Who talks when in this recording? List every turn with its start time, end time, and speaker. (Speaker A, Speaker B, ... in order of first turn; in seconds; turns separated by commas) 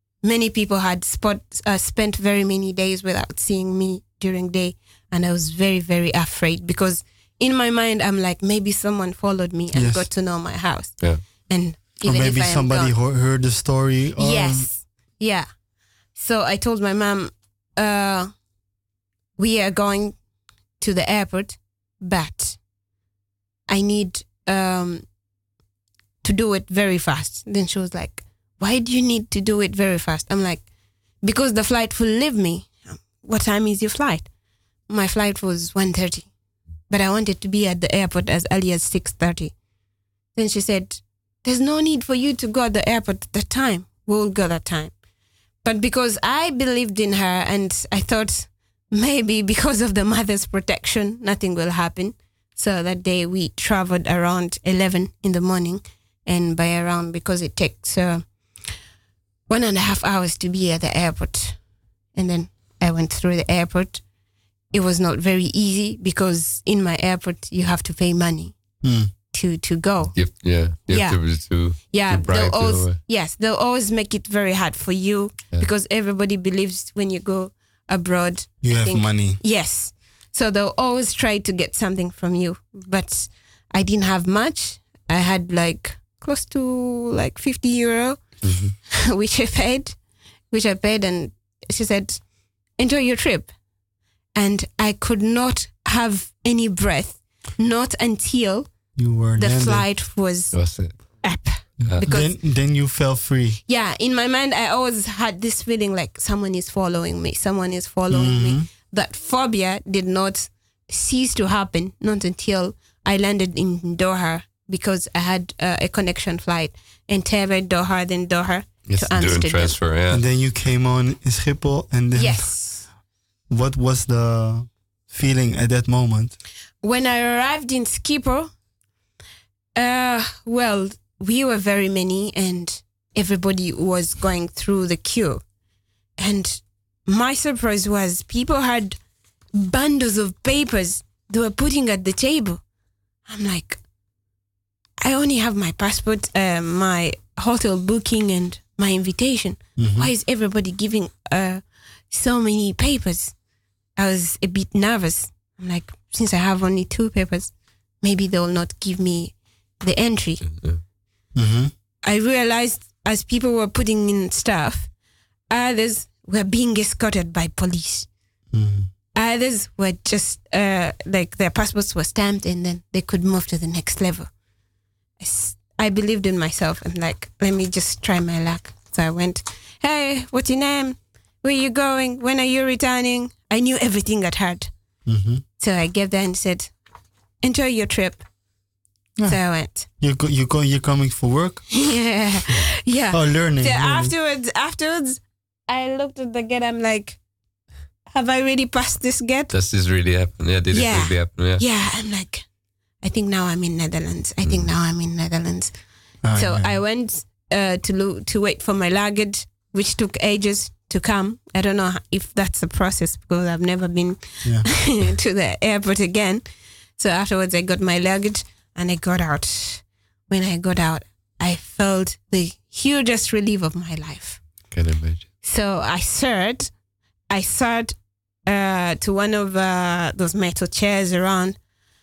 Speaker A: 0.2-12.9, Speaker B: 9.7-10.1, Speaker B: 12.1-14.7, Speaker A: 14.2-15.5, Speaker A: 16.1-18.4, Speaker A: 19.4-20.2, Speaker A: 20.8-22.6, Speaker A: 23.7-25.1, Speaker A: 26.2-30.7, Speaker A: 31.2-34.3, Speaker A: 34.9-36.3, Speaker A: 36.9-39.5, Speaker A: 40.4-45.0, Speaker A: 45.6-58.3, Speaker A: 59.5-61.6, Speaker A: 62.1-64.0, Speaker A: 64.7-90.0, Speaker B: 68.8-69.1, Speaker C: 70.1-73.0, Speaker B: 78.6-79.4, Speaker C: 88.4-88.8, Speaker A: 90.5-93.5, Speaker A: 94.3-102.4, Speaker B: 99.0-99.9, Speaker C: 100.5-102.0, Speaker B: 102.0-103.6, Speaker A: 103.7-119.8, Speaker B: 108.1-108.7, Speaker C: 118.9-120.2, Speaker B: 120.1-122.7, Speaker A: 122.2-122.9, Speaker B: 123.5-126.4, Speaker A: 126.8-128.5, Speaker A: 129.8-135.4, Speaker A: 136.2-139.0, Speaker A: 139.5-142.6, Speaker A: 143.3-143.8, Speaker A: 145.0-153.4, Speaker B: 149.8-150.1, Speaker A: 154.0-160.5, Speaker B: 161.3-161.7, Speaker A: 162.0-164.9, Speaker A: 165.5-168.1, Speaker B: 168.5-168.9, Speaker A: 169.1-174.3, Speaker A: 175.2-184.7, Speaker B: 185.1-185.4, Speaker A: 185.6-186.7, Speaker A: 187.4-188.2, Speaker B: 189.2-191.8, Speaker A: 189.3-189.9, Speaker A: 191.7-197.2, Speaker B: 193.1-194.1, Speaker A: 198.1-199.5, Speaker C: 199.5-201.6, Speaker A: 200.7-202.5, Speaker A: 203.0-205.7, Speaker B: 206.2-206.7, Speaker A: 206.3-216.4, Speaker A: 217.0-224.4, Speaker C: 224.7-225.3, Speaker A: 225.4-226.7, Speaker A: 227.3-231.6